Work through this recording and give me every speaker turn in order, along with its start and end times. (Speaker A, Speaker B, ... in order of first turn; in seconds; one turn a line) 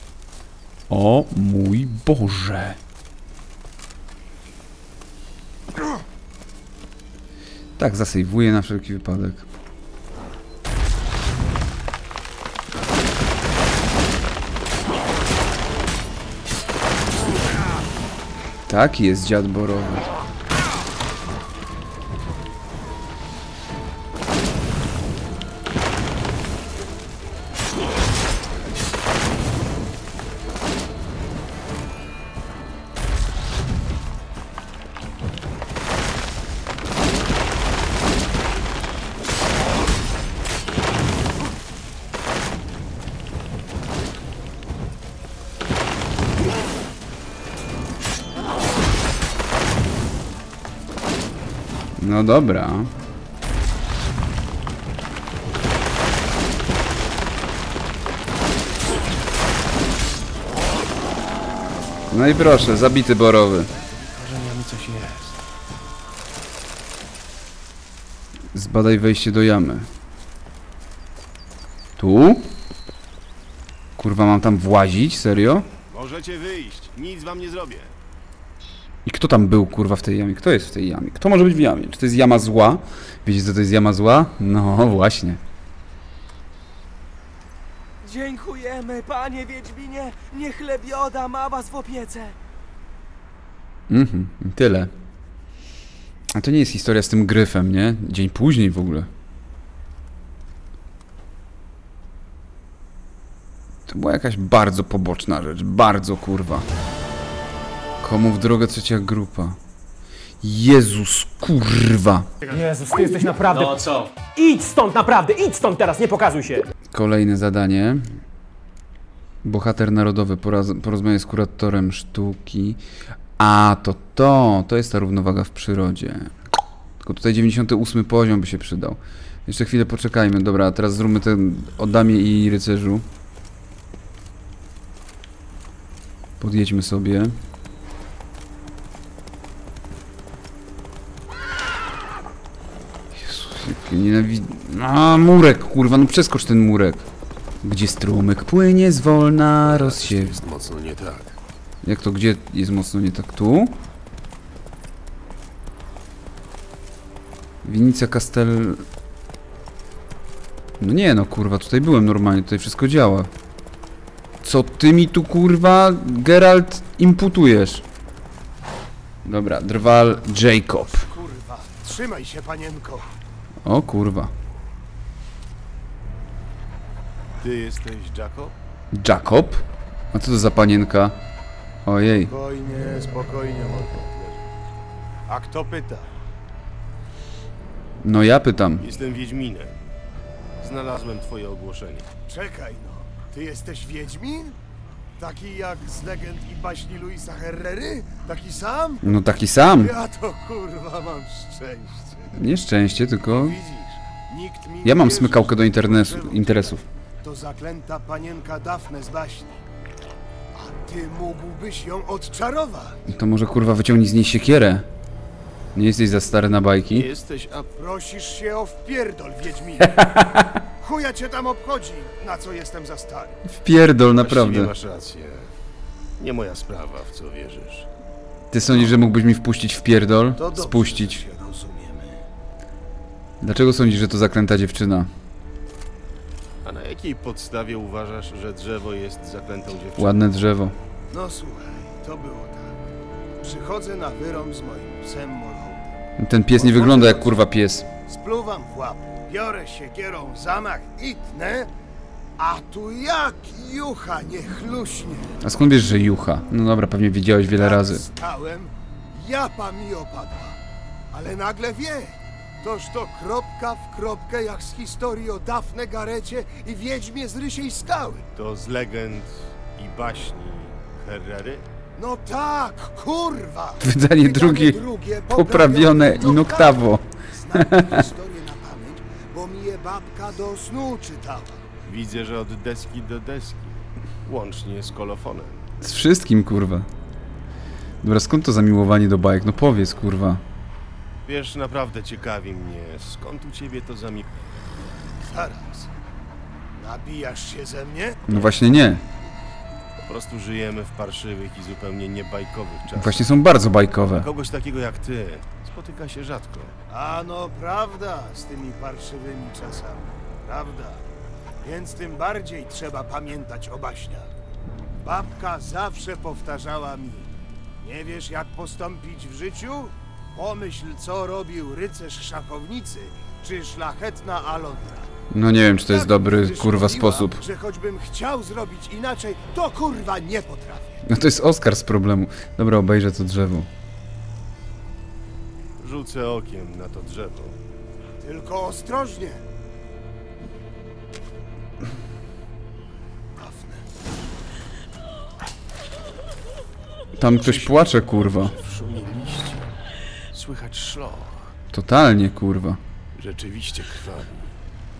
Speaker A: 0.9-2.8
Speaker A: 7.8-9.5
Speaker A: 18.7-20.1
Speaker A: 52.0-52.9
Speaker A: 62.1-63.7
Speaker B: 63.8-65.4
Speaker A: 68.5-69.9
Speaker A: 72.0-72.5
Speaker A: 74.0-75.7
Speaker B: 75.9-78.0
Speaker A: 79.0-85.4
Speaker C: 88.0-92.3
Speaker A: 93.9-94.9
Speaker A: 96.3-99.1
Speaker A: 103.9-106.7
Speaker A: 108.0-109.6
Speaker A: 110.4-112.3
Speaker D: 112.4-116.7
Speaker A: 116.9-118.0
Speaker A: 119.4-122.8
Speaker A: 123.4-126.3
Speaker A: 127.0-133.1
Speaker A: 136.4-137.3
Speaker A: 143.1-147.1
Speaker A: 147.6-150.4
Speaker B: 149.6-151.4
Speaker A: 151.8-153.8
Speaker A: 157.6-158.8
Speaker A: 160.8-163.3
Speaker A: 164.4-167.8
Speaker A: 169.2-171.1
Speaker E: 170.8-173.1
Speaker A: 173.7-174.3
Speaker B: 177.4-178.5
Speaker A: 178.9-181.2
Speaker A: 181.8-182.3
Speaker E: 182.3-184.6
Speaker E: 185.3-186.1
Speaker A: 188.0-188.9
Speaker B: 188.8-189.8
Speaker B: 190.6-192.1
Speaker E: 192.3-194.6
Speaker E: 195.2-199.2
Speaker A: 199.0-199.9
Speaker E: 199.8-202.3
Speaker A: 202.3-203.6
Speaker E: 203.3-209.6
Speaker A: 204.8-206.8
Speaker E: 210.5-213.0
Speaker A: 213.1-214.9
Speaker A: 215.8-217.1
Speaker B: 216.9-217.7
Speaker E: 217.8-220.0
Speaker A: 219.9-220.4
Speaker E: 220.8-223.4
Speaker A: 223.5-224.7
Speaker B: 224.1-225.5
Speaker B: 226.2-227.9
Speaker A: 228.5-231.2
Speaker E: 230.4-232.2
Speaker A: 233.4-235.1
Speaker B: 236.6-240.2
Speaker A: 240.0-240.8
Speaker E: 241.1-242.7
Speaker E: 243.4-245.9
Speaker A: 246.2-247.9
Speaker E: 246.5-247.4
Speaker E: 248.1-251.7
Speaker E: 252.4-255.4
Speaker A: 255.4-258.0
Speaker E: 257.6-260.6
Speaker E: 261.1-268.2
Speaker B: 268.4-271.6
Speaker E: 272.0-276.8
Speaker A: 273.8-278.0
Speaker E: 277.4-281.6
Speaker B: 281.9-285.6
Speaker A: 285.8-286.9
Speaker A: 288.0-290.4
Speaker B: 291.3-294.3
Speaker E: 295.2-295.9
Speaker E: 296.8-298.2
Speaker A: 298.3-299.0
Speaker B: 300.0-303.4
Speaker A: 302.9-304.3
Speaker B: 304.1-306.8
Speaker E: 306.9-311.0
Speaker E: 311.6-314.3
Speaker E: 315.0-325.1
Speaker A: 325.3-327.4
Speaker E: 325.9-331.0
Speaker A: 331.1-333.7
Speaker B: 335.8-337.6
Speaker E: 338.2-339.4
Speaker E: 343.4-343.8
Speaker A: 347.2-348.5
Speaker B: 347.4-349.6
Speaker B: 350.3-351.5
Speaker A: 351.7-352.8
Speaker B: 353.2-354.5